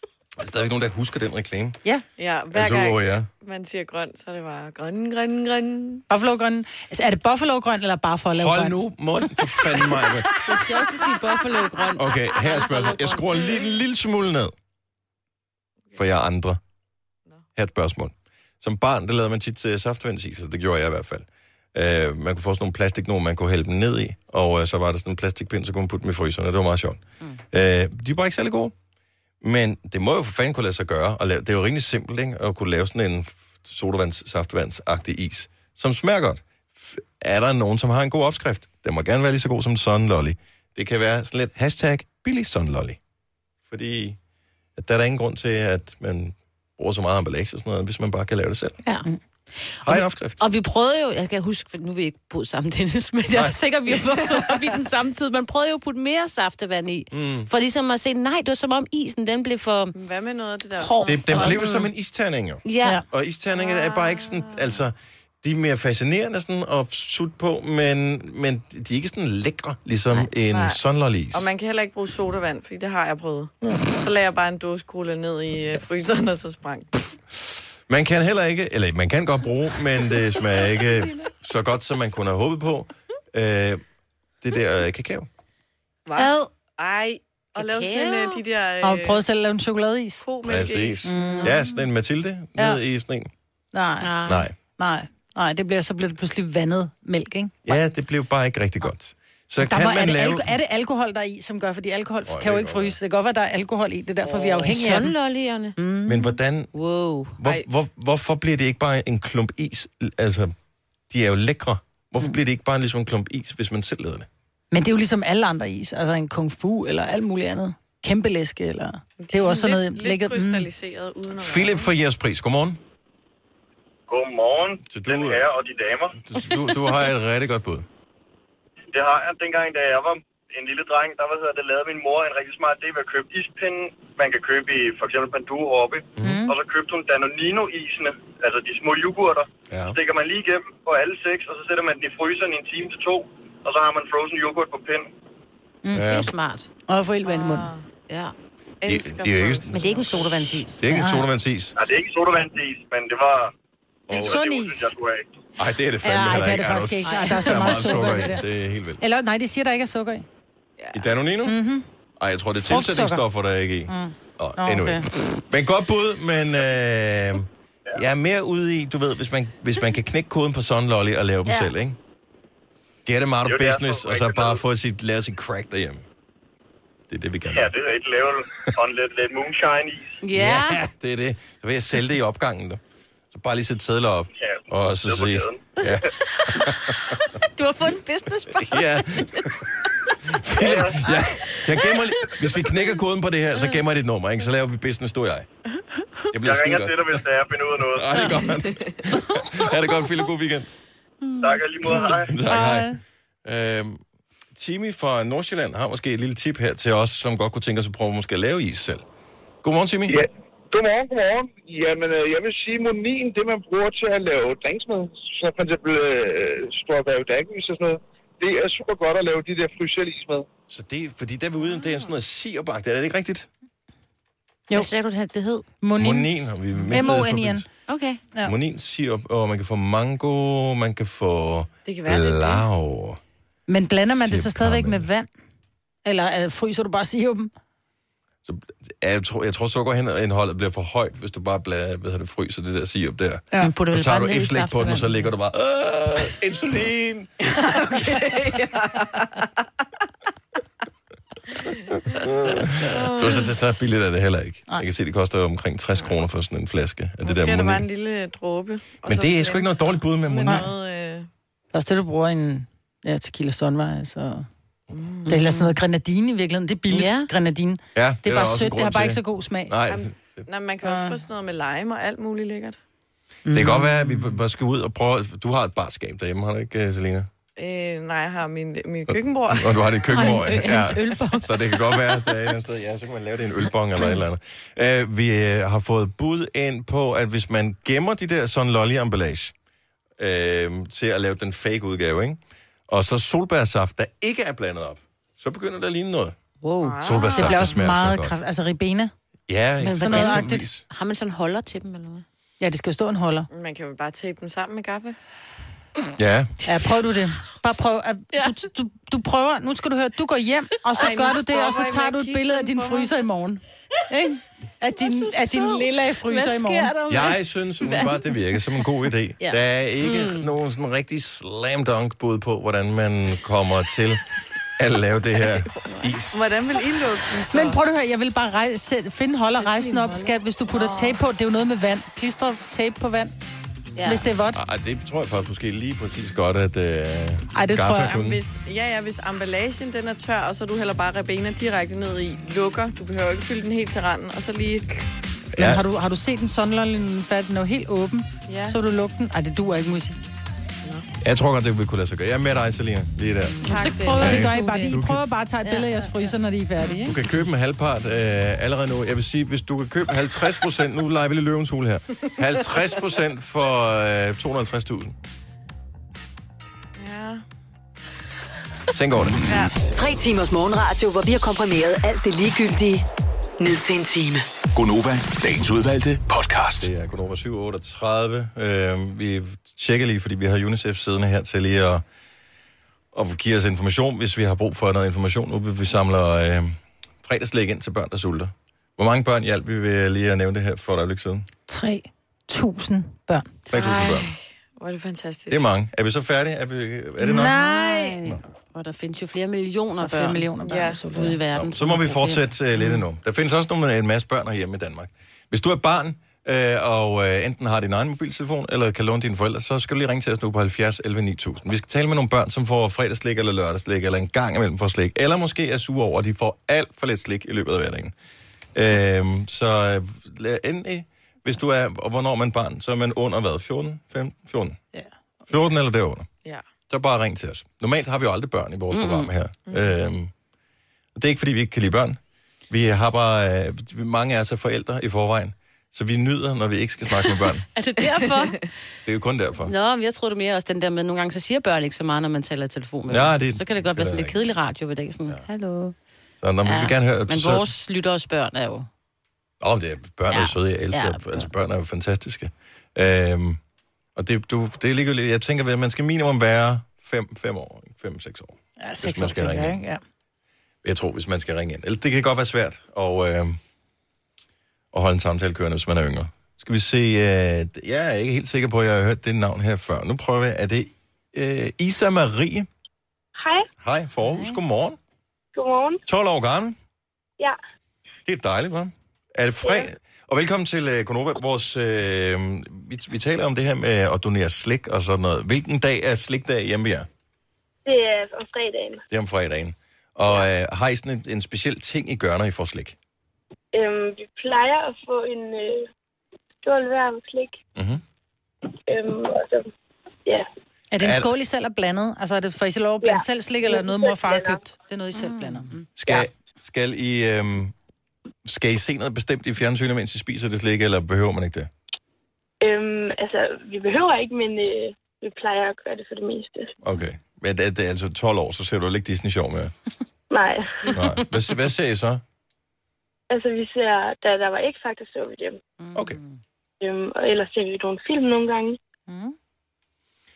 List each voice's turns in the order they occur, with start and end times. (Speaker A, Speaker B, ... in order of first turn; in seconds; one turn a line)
Speaker A: 0.4-1.8
Speaker B: 2.2-6.0
Speaker A: 2.5-3.3
Speaker C: 6.1-8.8
Speaker A: 8.3-10.4
Speaker D: 10.4-13.5
Speaker A: 11.9-14.5
Speaker A: 15.9-16.6
Speaker A: 17.6-27.0
Speaker A: 27.5-28.7
Speaker A: 29.4-43.0
Speaker A: 43.7-44.2
Speaker A: 44.8-48.8
Speaker D: 48.9-60.0
Speaker A: 49.8-50.4
Speaker A: 53.3-53.6
Speaker B: 54.2-54.5
Speaker A: 57.1-57.5
Speaker B: 60.0-61.6
Speaker D: 60.8-61.9
Speaker A: 61.1-71.5
Speaker D: 62.6-63.0
Speaker B: 63.5-64.8
Speaker B: 70.5-70.8
Speaker B: 71.3-77.1
Speaker A: 73.6-73.9
Speaker A: 77.3-83.8
Speaker A: 84.4-85.3
Speaker B: 86.1-89.2
Speaker D: 86.2-86.5
Speaker D: 87.6-88.4
Speaker C: 88.8-90.2
Speaker B: 90.2-91.5
Speaker A: 90.4-93.3
Speaker C: 91.0-91.5
Speaker D: 91.3-91.7
Speaker C: 93.7-94.2
Speaker D: 94.0-94.5
Speaker A: 94.3-94.5
Speaker C: 94.8-97.8
Speaker A: 97.7-100.5
Speaker C: 99.6-105.1
Speaker A: 102.3-103.0
Speaker D: 104.6-105.8
Speaker C: 105.8-106.3
Speaker A: 106.1-106.7
Speaker D: 106.7-107.4
Speaker A: 107.4-110.5
Speaker A: 111.1-114.3
Speaker C: 114.7-120.7
Speaker B: 119.2-121.9
Speaker A: 121.4-122.8
Speaker E: 124.1-126.2
Speaker A: 124.9-125.5
Speaker A: 126.2-127.9
Speaker E: 128.9-145.1
Speaker C: 136.2-136.6
Speaker A: 139.7-140.0
Speaker C: 145.8-146.2
Speaker A: 145.9-146.3
Speaker D: 146.0-146.7
Speaker C: 146.9-147.7
Speaker B: 147.2-147.9
Speaker B: 148.8-150.3
Speaker A: 148.8-151.8
Speaker D: 149.7-150.8
Speaker C: 150.9-151.3
Speaker E: 151.8-153.5
Speaker A: 154.1-154.4
Speaker C: 154.1-154.9
Speaker E: 154.1-155.3
Speaker A: 155.6-159.0
Speaker C: 156.0-158.5
Speaker D: 157.1-158.2
Speaker C: 159.0-160.3
Speaker B: 160.8-161.1
Speaker A: 160.9-161.6
Speaker C: 161.5-161.8
Speaker A: 162.2-172.0
Speaker C: 162.6-163.2
Speaker C: 163.9-165.1
Speaker D: 171.5-171.7
Speaker A: 173.1-176.1
Speaker E: 173.5-174.6
Speaker A: 177.1-177.7
Speaker E: 177.5-180.2
Speaker D: 180.2-180.8
Speaker A: 180.3-182.8
Speaker A: 183.3-187.2
Speaker E: 184.3-185.8
Speaker D: 186.2-189.1
Speaker A: 188.4-189.7
Speaker A: 190.2-195.5
Speaker E: 190.6-191.0
Speaker D: 191.5-192.0
Speaker A: 196.3-200.7
Speaker E: 196.4-198.2
Speaker B: 198.7-198.9
Speaker E: 201.4-202.3
Speaker A: 201.8-202.9
Speaker C: 202.4-202.9
Speaker A: 203.4-204.0
Speaker A: 204.6-209.1
Speaker A: 209.6-210.2
Speaker F: 210.1-220.5
Speaker A: 220.7-223.5
Speaker B: 221.7-222.1
Speaker D: 224.7-225.7
Speaker C: 225.8-226.3
Speaker A: 226.0-227.7
Speaker C: 226.9-227.7
Speaker D: 227.9-228.2
Speaker A: 228.4-233.2
Speaker B: 231.8-232.7
Speaker C: 233.7-235.3
Speaker A: 234.1-235.1
Speaker C: 236.1-237.5
Speaker A: 238.4-248.3
Speaker D: 243.6-245.2
Speaker B: 247.4-249.5
Speaker B: 251.6-253.5
Speaker A: 251.9-257.9
Speaker B: 257.2-261.3
Speaker A: 259.1-260.7
Speaker C: 261.7-264.5
Speaker B: 264.9-265.3
Speaker D: 265.3-265.7
Speaker C: 265.3-269.7
Speaker D: 266.9-267.3
Speaker A: 267.9-270.5
Speaker B: 269.9-272.8
Speaker C: 270.8-271.2
Speaker C: 273.5-274.4
Speaker A: 273.5-277.3
Speaker B: 277.6-281.1
Speaker A: 279.1-289.5
Speaker D: 280.1-281.6
Speaker A: 290.2-296.4
Speaker C: 296.6-299.1
Speaker B: 296.8-297.8
Speaker A: 297.0-298.4
Speaker A: 299.5-300.8
Speaker D: 299.8-302.2
Speaker C: 300.0-300.6
Speaker C: 302.6-303.5
Speaker B: 303.5-305.2
Speaker A: 306.2-306.6
Speaker C: 306.6-316.9
Speaker B: 310.9-313.1
Speaker D: 315.0-318.8
Speaker A: 317.1-324.2
Speaker D: 319.4-320.5
Speaker A: 324.8-326.5
Speaker B: 326.3-327.8
Speaker C: 327.5-333.3
Speaker B: 329.8-330.1
Speaker B: 330.7-331.2
Speaker D: 334.0-334.3
Speaker C: 334.0-334.6
Speaker A: 334.5-338.4
Speaker C: 337.5-338.2
Speaker B: 337.9-345.1
Speaker A: 345.5-345.8
Speaker C: 345.6-350.2
Speaker B: 348.5-348.8
Speaker A: 351.2-355.2
Speaker B: 353.6-354.4
Speaker D: 353.6-355.0
Speaker C: 353.7-357.1
Speaker D: 355.6-355.9
Speaker A: 357.0-365.2
Speaker B: 367.0-367.4
Speaker A: 368.9-369.4
Speaker B: 369.5-369.7
Speaker G: 369.8-373.1
Speaker G: 373.6-374.5
Speaker H: 374.7-376.9
Speaker A: 376.8-382.0
Speaker A: 383.1-391.5
Speaker C: 391.7-393.6
Speaker A: 393.7-394.3
Speaker B: 393.7-395.6
Speaker A: 395.5-397.6
Speaker C: 397.2-398.2
Speaker D: 397.4-400.5
Speaker C: 400.0-401.4
Speaker B: 400.6-401.1
Speaker D: 401.1-402.5
Speaker A: 401.5-418.1
Speaker A: 418.8-424.8
Speaker A: 425.5-426.3
Speaker A: 426.9-430.3
Speaker D: 428.9-429.3
Speaker B: 429.7-429.9
Speaker A: 431.2-437.7
Speaker D: 437.8-438.7
Speaker B: 438.0-438.5
Speaker A: 439.1-439.7
Speaker D: 439.6-445.9
Speaker A: 443.1-444.4
Speaker A: 446.4-447.7
Speaker D: 446.6-448.9
Speaker A: 449.6-453.6
Speaker D: 450.3-451.5
Speaker A: 454.2-459.8
Speaker C: 458.8-460.0
Speaker A: 460.8-463.6
Speaker A: 464.9-472.7
Speaker I: 473.4-473.7
Speaker A: 473.8-475.0
Speaker I: 475.5-476.0
Speaker A: 476.1-476.8
Speaker A: 478.3-487.1
Speaker I: 487.9-489.0
Speaker A: 489.1-493.0
Speaker I: 493.7-495.9
Speaker I: 496.6-497.6
Speaker A: 497.8-498.0
Speaker I: 498.9-499.7
Speaker C: 500.9-505.7
Speaker A: 501.0-501.3
Speaker I: 503.0-504.6
Speaker D: 505.1-505.8
Speaker A: 506.0-507.8
Speaker A: 508.4-511.7
Speaker I: 512.6-516.7
Speaker A: 516.8-519.7
Speaker I: 520.3-521.0
Speaker A: 520.9-522.2
Speaker I: 523.3-525.6
Speaker D: 525.8-526.4
Speaker I: 526.8-528.8
Speaker C: 529.1-529.4